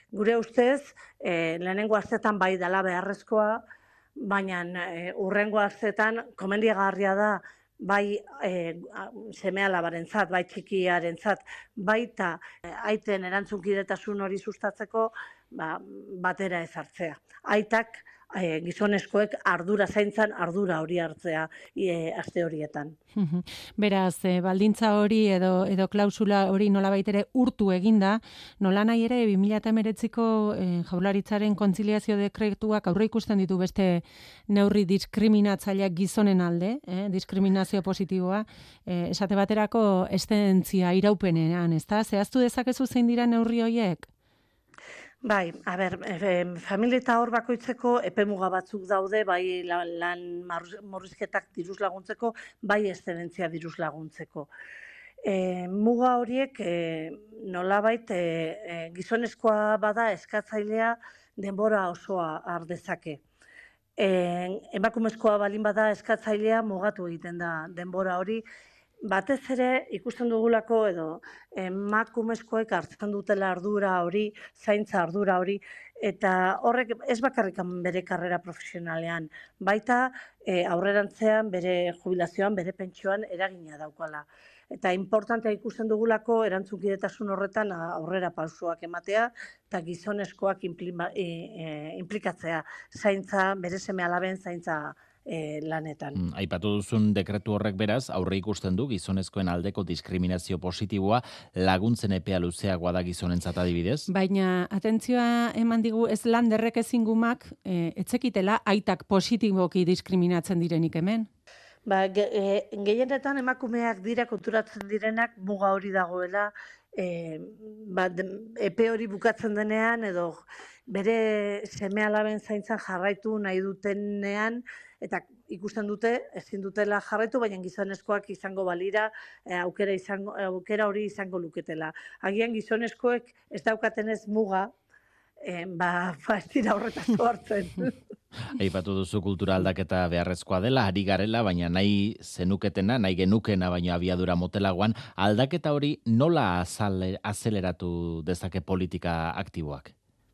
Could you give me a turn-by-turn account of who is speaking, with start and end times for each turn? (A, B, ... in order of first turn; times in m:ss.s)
0:00.1-0:03.6 A
0:04.2-0:23.0 A
0:23.2-0:44.1 B
0:45.2-0:54.5 A
0:55.2-1:03.2 A
1:04.0-1:08.4 A
1:09.1-1:36.2 A
1:36.2-1:44.1 C
1:44.1-1:51.3 B
1:51.9-2:00.4 A
2:00.9-2:14.7 A
2:15.4-2:17.9 A
2:18.5-2:29.9 C